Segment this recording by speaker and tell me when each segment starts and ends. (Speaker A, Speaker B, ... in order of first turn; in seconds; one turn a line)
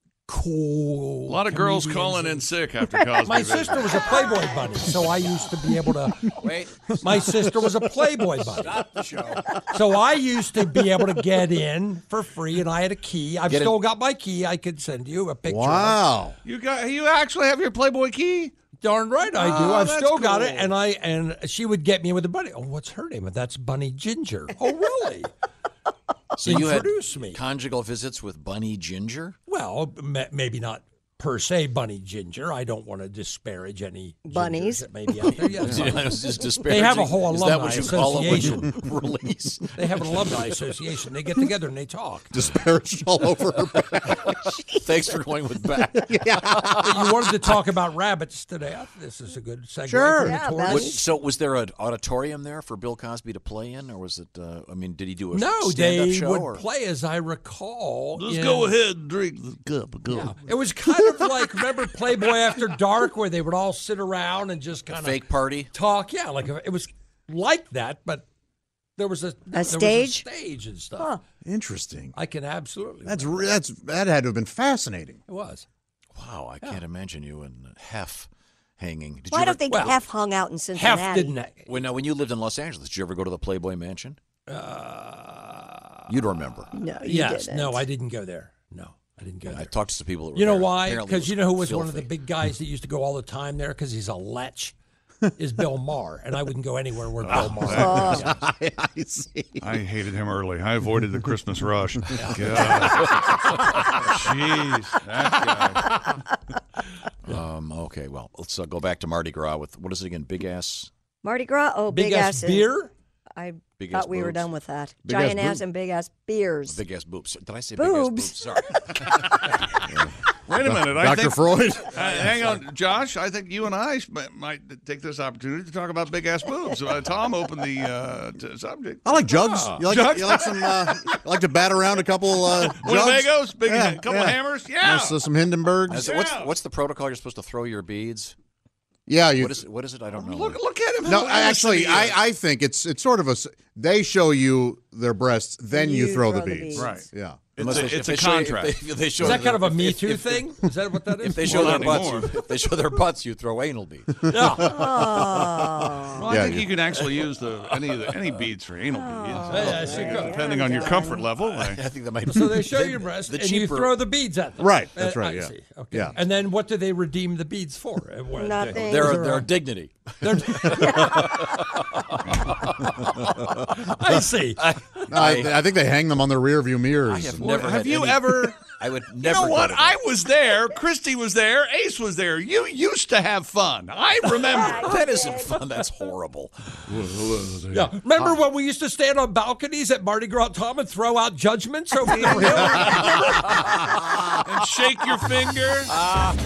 Speaker A: 0.3-2.4
Speaker B: 1.3-4.0
Speaker A: 3.2-8.8
Speaker C: 6.4-7.3
Speaker C: 8.4-9.5
Speaker A: 9.7-16.0
Speaker C: 13.4-13.8
Speaker D: 15.4-16.4
Speaker B: 16.4-18.5
Speaker A: 18.8-25.3
Speaker B: 19.4-20.7
Speaker C: 26.4-29.4
Speaker A: 26.4-27.4
Speaker A: 29.5-38.8
Speaker E: 34.2-34.9
Speaker C: 35.2-40.6
Speaker D: 35.6-35.9
Speaker A: 39.8-42.3
Speaker D: 42.3-44.4
Speaker C: 44.8-47.7
Speaker D: 46.0-46.8
Speaker A: 46.8-51.0
Speaker D: 49.9-50.5
Speaker E: 50.2-50.9
Speaker C: 50.6-56.6
Speaker A: 55.3-58.8
Speaker B: 58.2-60.3
Speaker A: 60.1-68.2
Speaker C: 64.9-65.7
Speaker A: 69.0-71.2
Speaker E: 69.5-70.2
Speaker D: 71.4-72.1
Speaker A: 72.1-73.3
Speaker D: 73.0-75.2
Speaker A: 75.3-75.7
Speaker C: 76.1-78.3
Speaker C: 78.8-80.0
Speaker E: 79.3-81.3
Speaker A: 79.7-80.0
Speaker A: 80.7-81.7
Speaker C: 81.7-84.2
Speaker A: 84.5-86.3
Speaker C: 86.1-86.7
Speaker E: 86.7-87.8
Speaker A: 87.0-89.7
Speaker C: 89.4-92.1
Speaker A: 90.3-94.8
Speaker A: 95.3-98.4
Speaker B: 97.2-98.1
Speaker E: 97.6-98.3
Speaker D: 97.9-99.7
Speaker B: 99.6-106.0
Speaker A: 102.1-102.7
Speaker C: 107.2-110.9
Speaker E: 111.2-112.7
Speaker A: 111.9-112.9
Speaker E: 113.4-116.8
Speaker C: 113.8-114.5
Speaker D: 115.0-115.6
Speaker C: 116.7-119.3
Speaker E: 117.8-119.0
Speaker B: 119.2-119.5
Speaker D: 119.9-122.3
Speaker B: 120.5-131.1
Speaker C: 122.1-122.6
Speaker D: 129.0-136.1
Speaker A: 129.5-129.8
Speaker B: 132.4-135.2
Speaker C: 135.9-138.3
Speaker B: 135.9-136.5
Speaker D: 139.1-139.6
Speaker C: 139.3-140.6
Speaker B: 140.1-142.2
Speaker D: 141.0-147.5
Speaker E: 145.7-147.0
Speaker B: 146.7-148.8
Speaker C: 147.6-150.5
Speaker A: 149.2-152.0
Speaker C: 151.2-154.6
Speaker B: 151.3-152.3
Speaker A: 154.3-154.8
Speaker D: 154.3-156.8
Speaker E: 154.5-156.4
Speaker B: 156.1-161.8
Speaker C: 156.9-158.2
Speaker E: 158.9-161.3
Speaker A: 159.5-160.5
Speaker C: 161.3-164.0
Speaker A: 162.2-169.5
Speaker D: 164.6-166.1
Speaker E: 168.3-169.4
Speaker C: 168.7-172.7
Speaker A: 170.2-171.4
Speaker E: 170.8-171.3
Speaker A: 172.8-175.0
Speaker C: 175.1-175.7
Speaker D: 175.1-177.6
Speaker C: 177.0-180.0
Speaker B: 177.4-185.0
Speaker E: 184.3-185.6
Speaker C: 184.8-186.8
Speaker B: 186.9-187.9
Speaker A: 187.7-193.2
Speaker B: 192.1-193.2
Speaker C: 192.9-193.6
Speaker B: 194.4-195.9